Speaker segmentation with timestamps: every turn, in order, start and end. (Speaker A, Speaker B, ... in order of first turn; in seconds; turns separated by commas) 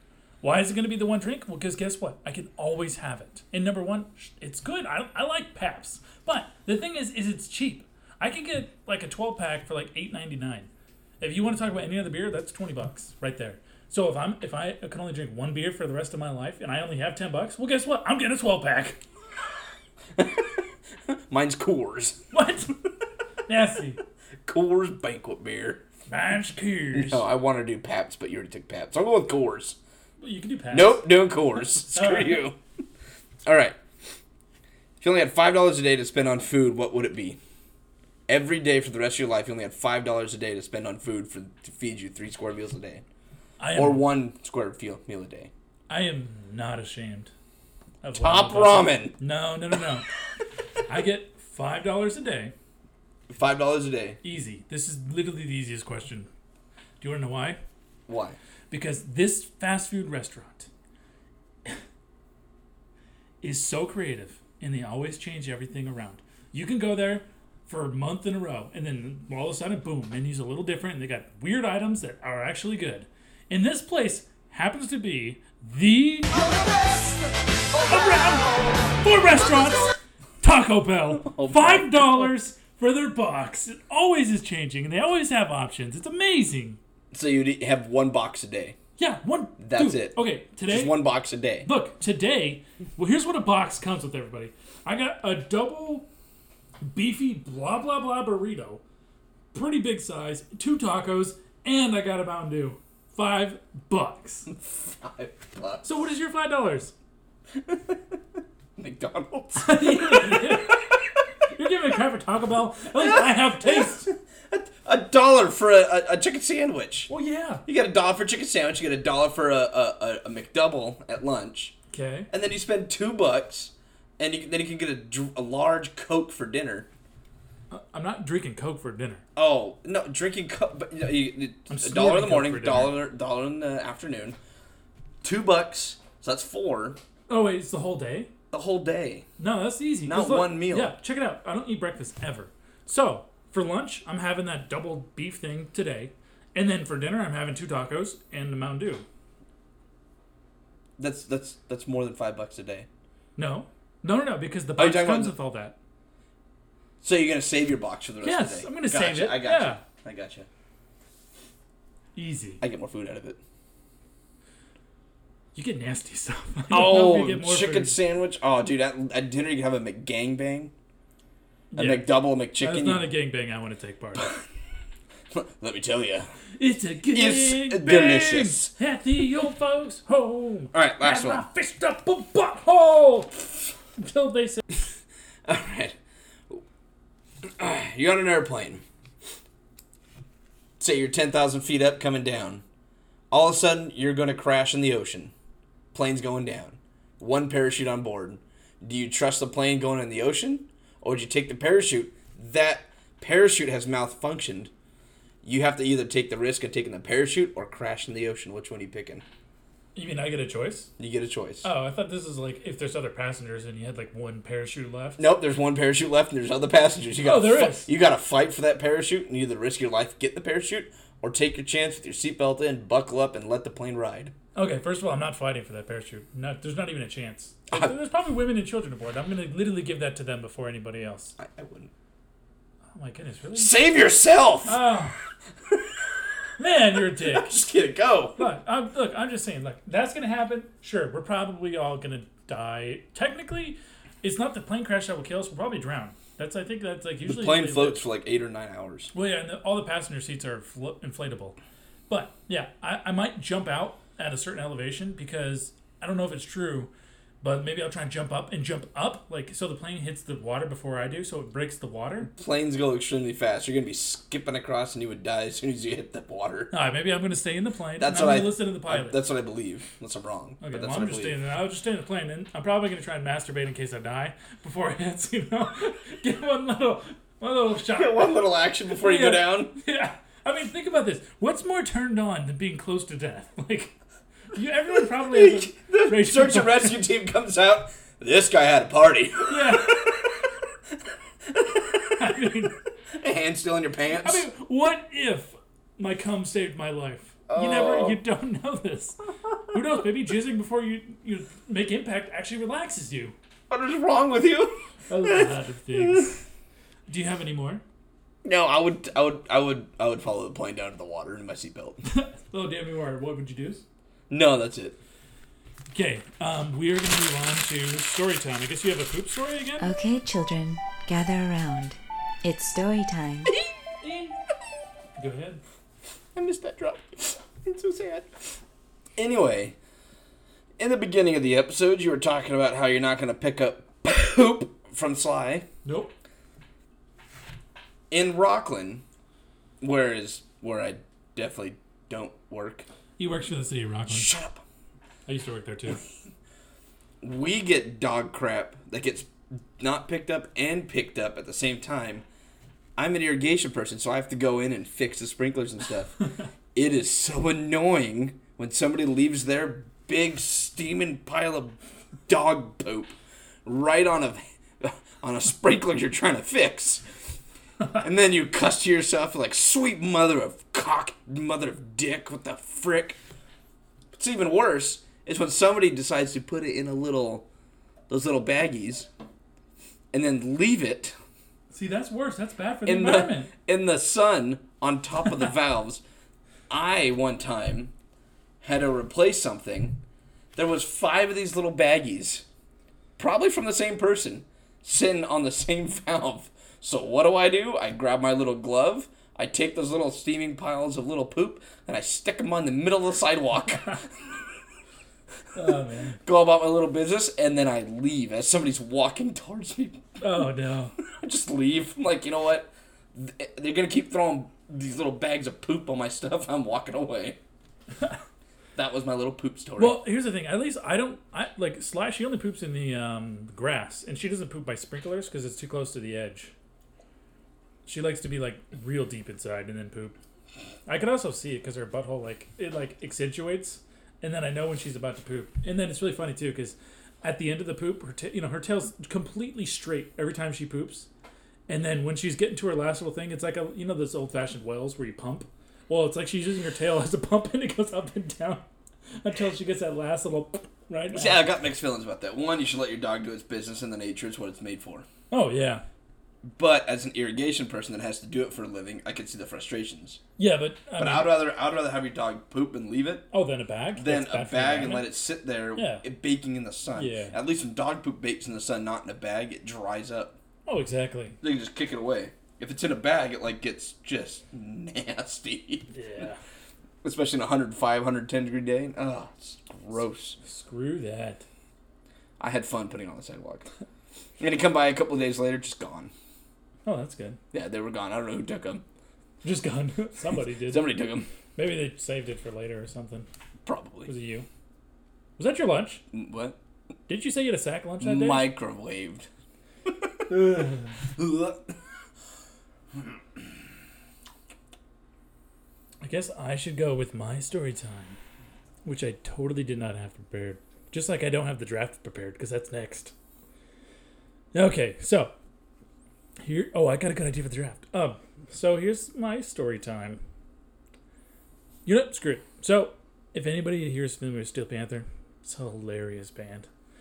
Speaker A: 0.4-10.7, Speaker A: 11.2-19.0, Speaker B: 20.1-20.5, Speaker B: 21.1-22.2, Speaker A: 22.3-22.7, Speaker A: 23.5-24.0, Speaker B: 24.4-25.8, Speaker A: 26.1-27.2, Speaker B: 26.9-29.8, Speaker A: 30.2-31.1, Speaker B: 30.7-32.6, Speaker A: 31.9-32.5, Speaker B: 33.4-33.8, Speaker B: 35.0-37.4, Speaker B: 38.3-43.0, Speaker A: 43.6-44.1, Speaker B: 43.7-45.5, Speaker A: 45.9-47.3, Speaker A: 48.0-50.1, Speaker B: 48.2-49.2, Speaker A: 50.9-52.5, Speaker B: 53.3-54.2, Speaker A: 54.2-56.3, Speaker A: 57.0-57.6, Speaker B: 58.1-58.4, Speaker A: 58.7-60.7, Speaker A: 63.4-77.2, Speaker A: 77.8-86.8, Speaker B: 81.2-82.3, Speaker B: 87.1-88.8, Speaker A: 89.0-91.0, Speaker B: 89.6-91.7, Speaker A: 91.6-96.1, Speaker A: 96.8-98.8, Speaker A: 99.5-104.5, Speaker B: 104.5-105.9, Speaker A: 105.8-106.9, Speaker B: 107.6-108.2, Speaker B: 108.8-110.9, Speaker A: 109.5-110.9, Speaker A: 111.5-114.1, Speaker B: 113.0-117.1, Speaker A: 117.1-117.7, Speaker B: 117.7-121.7, Speaker A: 121.9-122.3, Speaker B: 122.3-126.9, Speaker A: 127.7-129.2, Speaker B: 129.3-134.3, Speaker A: 131.7-133.0, Speaker B: 135.2-137.0, Speaker A: 137.3-138.3, Speaker B: 138.5-139.2, Speaker A: 139.4-149.0, Speaker B: 140.1-140.9, Speaker B: 151.0-152.9, Speaker A: 153.3-155.8, Speaker B: 154.8-155.3, Speaker B: 157.0-160.5, Speaker A: 158.2-159.8, Speaker A: 162.1-162.6, Speaker B: 162.6-163.4, Speaker A: 165.5-168.0, Speaker B: 166.7-170.7, Speaker A: 171.7-174.3, Speaker B: 171.8-173.1, Speaker B: 175.3-176.3, Speaker A: 176.6-183.3, Speaker B: 177.1-178.7, Speaker B: 180.7-181.4, Speaker A: 184.0-184.6, Speaker B: 185.4-185.9, Speaker B: 187.4-188.8, Speaker B: 190.8-192.6, Speaker B: 193.3-195.3, Speaker B: 195.9-204.7, Speaker B: 205.4-209.2, Speaker A: 209.9-210.9, Speaker B: 211.0-211.7, Speaker A: 211.6-215.2, Speaker B: 215.2-224.3, Speaker A: 217.2-217.9, Speaker A: 224.5-231.3, Speaker B: 231.4-231.9, Speaker A: 232.9-233.8, Speaker B: 233.6-234.8, Speaker A: 234.6-235.1, Speaker A: 236.6-237.5, Speaker B: 237.2-238.4, Speaker A: 238.4-248.0, Speaker B: 247.2-249.1, Speaker A: 249.1-251.6, Speaker A: 252.1-256.9, Speaker A: 257.4-262.3, Speaker B: 262.3-266.7, Speaker A: 266.7-269.2, Speaker B: 268.0-271.4, Speaker A: 270.6-278.4, Speaker B: 277.9-279.7, Speaker A: 279.0-283.9, Speaker A: 284.5-287.0, Speaker B: 285.2-290.2, Speaker A: 289.5-290.1, Speaker B: 291.5-292.2, Speaker A: 292.1-292.8, Speaker B: 293.2-294.5, Speaker A: 294.2-303.3, Speaker B: 297.5-298.2, Speaker B: 303.7-306.3, Speaker A: 305.1-306.4, Speaker A: 307.1-307.8, Speaker B: 308.4-312.0, Speaker A: 312.1-313.8, Speaker B: 314.3-315.0, Speaker A: 315.9-319.9, Speaker C: 319.8-323.5, Speaker A: 324.0-324.3, Speaker A: 325.2-325.6, Speaker B: 326.3-328.5, Speaker B: 329.2-329.8, Speaker B: 330.8-335.7, Speaker A: 335.8-336.1, Speaker B: 338.1-339.0, Speaker B: 339.8-342.9, Speaker A: 343.2-344.3, Speaker B: 344.1-344.6, Speaker A: 345.2-346.0, Speaker B: 347.2-352.2, Speaker B: 353.0-356.2, Speaker B: 356.7-361.8, Speaker B: 362.3-367.2, Speaker B: 368.0-373.2, Speaker B: 374.1-377.4, Speaker B: 378.1-379.1, Speaker B: 380.1-381.1, Speaker A: 381.7-383.5, Speaker B: 382.9-386.0, Speaker B: 386.7-387.9, Speaker B: 388.6-390.0, Speaker B: 390.5-392.4, Speaker B: 393.2-404.1, Speaker A: 405.5-406.2, Speaker B: 406.2-410.2, Speaker A: 410.2-410.9, Speaker B: 411.0-417.4, Speaker B: 418.8-420.0, Speaker A: 419.8-426.5, Speaker A: 427.8-430.1, Speaker A: 430.9-441.1, Speaker A: 441.7-448.6, Speaker A: 449.2-451.4, Speaker B: 451.1-455.1, Speaker A: 455.3-455.8, Speaker B: 456.5-460.2, Speaker A: 460.4-461.4, Speaker B: 461.0-463.2, Speaker A: 463.3-465.1, Speaker B: 463.9-470.4, Speaker A: 465.7-466.0, Speaker A: 466.9-467.3, Speaker A: 470.6-471.4, Speaker B: 471.4-476.2, Speaker A: 475.9-476.4, Speaker B: 477.0-480.4, Speaker A: 480.4-481.4, Speaker B: 482.4-483.7, Speaker B: 484.4-486.1, Speaker A: 486.8-487.4, Speaker B: 487.5-488.8, Speaker A: 489.4-490.9, Speaker B: 490.6-491.3, Speaker A: 491.6-493.3, Speaker B: 493.6-494.1, Speaker A: 494.1-494.5, Speaker A: 495.4-496.0, Speaker B: 496.1-496.6, Speaker A: 497.1-498.5, Speaker B: 498.0-499.3, Speaker B: 499.9-500.2, Speaker A: 500.3-500.9, Speaker B: 501.2-501.7, Speaker A: 506.0-508.2, Speaker A: 508.8-513.1, Speaker A: 514.5-515.3, Speaker A: 516.4-520.2, Speaker A: 521.9-526.7